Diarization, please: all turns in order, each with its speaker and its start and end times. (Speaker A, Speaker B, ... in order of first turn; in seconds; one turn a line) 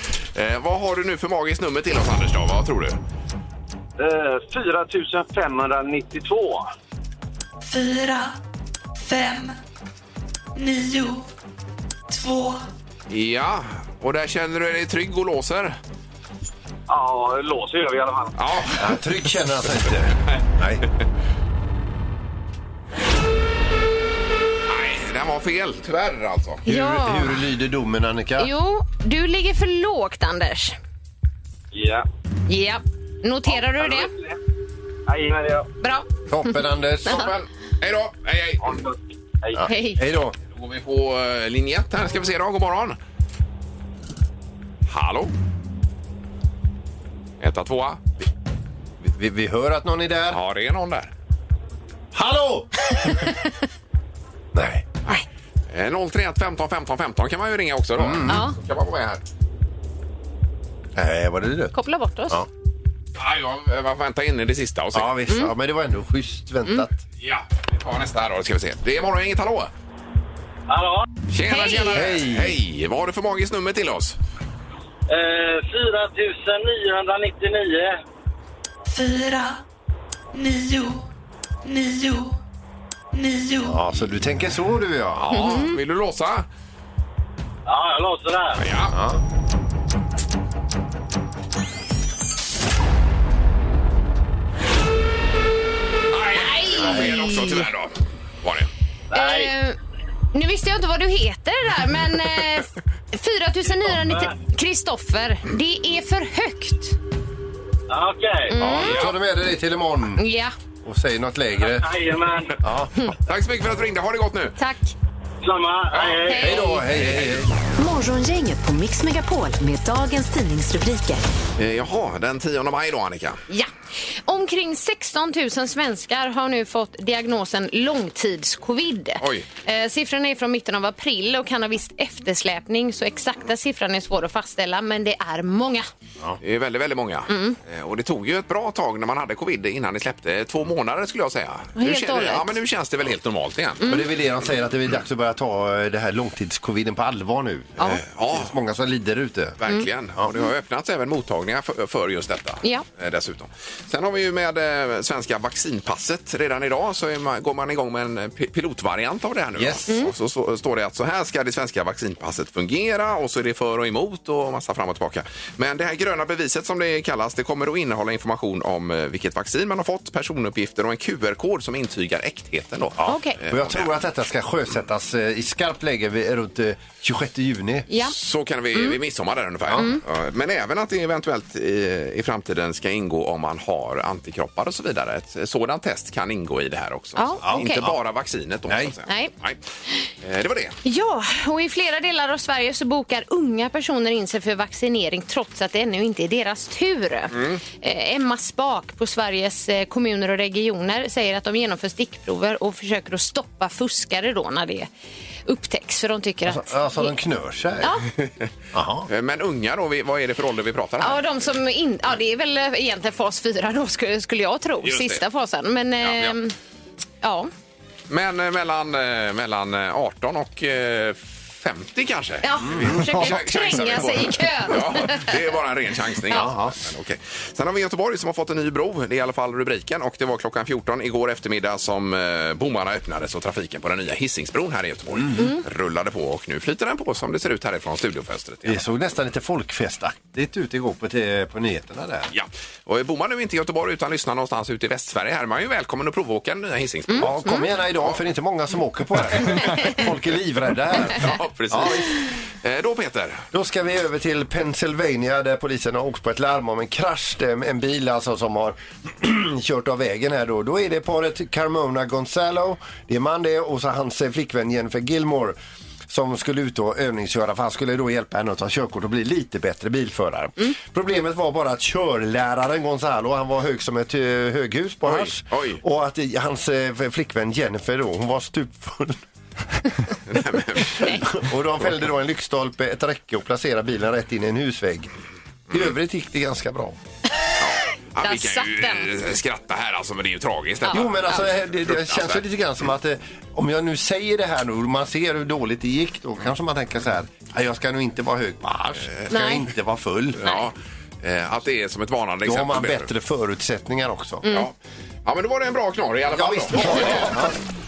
Speaker A: 0.3-3.0
Speaker B: 4.0-6.7
Speaker C: 7.6-8.3
Speaker C: 9.0-9.6
Speaker C: 10.5-11.2
Speaker C: 12.1-12.6
Speaker A: 13.1-15.8
Speaker B: 16.9-18.4
Speaker A: 18.4-19.0
Speaker D: 18.8-20.8
Speaker A: 24.7-26.6
Speaker E: 26.6-27.4
Speaker D: 26.6-28.5
Speaker E: 28.4-30.8
Speaker B: 31.7-32.0
Speaker E: 32.5-34.1
Speaker B: 33.5-34.4
Speaker B: 35.1-35.7
Speaker E: 35.8-37.3
Speaker D: 36.3-37.3
Speaker A: 37.0-38.8
Speaker B: 38.6-39.7
Speaker D: 39.5-40.3
Speaker E: 39.6-40.0
Speaker A: 40.5-43.0
Speaker A: 44.9-45.3
Speaker A: 47.4-48.0
Speaker D: 49.0-50.4
Speaker A: 50.3-51.1
Speaker D: 52.1-53.2
Speaker D: 54.5-54.8
Speaker A: 55.7-59.2
Speaker D: 58.0-58.4
Speaker E: 58.3-58.6
Speaker D: 60.9-61.7
Speaker E: 61.7-62.4
Speaker A: 63.2-65.1
Speaker D: 64.9-67.0
Speaker A: 67.2-69.7
Speaker B: 70.7-71.1
Speaker A: 71.3-74.2
Speaker E: 71.5-72.1
Speaker D: 71.9-72.6
Speaker B: 75.1-78.0
Speaker C: 78.9-79.6
Speaker C: 80.3-81.0
Speaker C: 81.6-82.4
Speaker C: 83.1-83.8
Speaker D: 83.7-85.3
Speaker A: 85.2-86.5
Speaker E: 85.3-85.8
Speaker B: 87.7-88.6
Speaker A: 88.6-89.0
Speaker D: 88.9-89.2
Speaker A: 96.1-98.7
Speaker E: 96.3-97.7
Speaker B: 99.1-99.5
Speaker E: 99.1-99.8
Speaker E: 100.3-107.0
Speaker B: 104.0-104.3
Speaker B: 107.9-108.6
Speaker E: 108.5-109.1
Speaker D: 108.6-110.2
Speaker A: 108.6-109.2
Speaker E: 110.2-110.5
Speaker D: 110.8-112.0
Speaker B: 111.6-112.6
Speaker D: 112.6-112.9
Speaker A: 113.2-114.6
Speaker E: 114.6-114.9
Speaker B: 115.4-116.5
Speaker E: 116.2-116.8
Speaker D: 116.3-117.5
Speaker A: 116.9-117.4
Speaker F: 117.8-121.2
Speaker A: 121.6-123.4
Speaker E: 124.3-135.9
Speaker A: 129.2-129.5
Speaker A: 136.4-143.9
Speaker E: 137.3-137.6
Speaker E: 141.8-142.6
Speaker E: 143.8-144.1
Speaker D: 143.8-149.6
Speaker A: 148.1-148.5
Speaker A: 149.6-173.9
Speaker D: 159.6-159.8
Speaker D: 173.0-177.9
Speaker E: 173.1-173.4
Speaker E: 177.9-178.1
Speaker A: 178.0-189.6
Speaker D: 179.7-179.9
Speaker E: 179.8-180.0
Speaker E: 187.2-187.8
Speaker D: 187.4-187.9
Speaker A: 190.2-190.8
Speaker E: 190.8-204.9
Speaker A: 197.3-197.6
Speaker E: 205.4-207.1
Speaker D: 206.5-207.9
Speaker E: 207.8-208.1
Speaker D: 208.7-209.1
Speaker A: 209.1-211.2
Speaker E: 211.0-216.5
Speaker A: 214.8-215.2
Speaker A: 216.0-216.3
Speaker E: 217.2-217.5
Speaker A: 218.1-238.8
Speaker E: 222.4-225.4
Speaker D: 222.6-223.1
Speaker D: 226.3-226.8
Speaker D: 238.7-242.3
Speaker A: 242.3-247.4
Speaker E: 247.1-247.7
Speaker D: 247.2-252.1
Speaker A: 249.3-249.6
Speaker A: 251.1-253.4
Speaker D: 253.5-265.6
Speaker D: 266.1-279.2
Speaker A: 275.0-275.8
Speaker A: 280.3-281.2
Speaker E: 280.9-281.2
Speaker D: 280.9-285.1
Speaker D: 285.7-286.9
Speaker A: 287.6-292.4
Speaker E: 288.2-289.1
Speaker E: 290.9-291.4
Speaker D: 290.9-300.4
Speaker E: 299.3-299.6
Speaker A: 300.4-303.1
Speaker D: 302.4-304.4
Speaker E: 304.4-304.7
Speaker A: 305.2-307.4
Speaker D: 306.3-307.6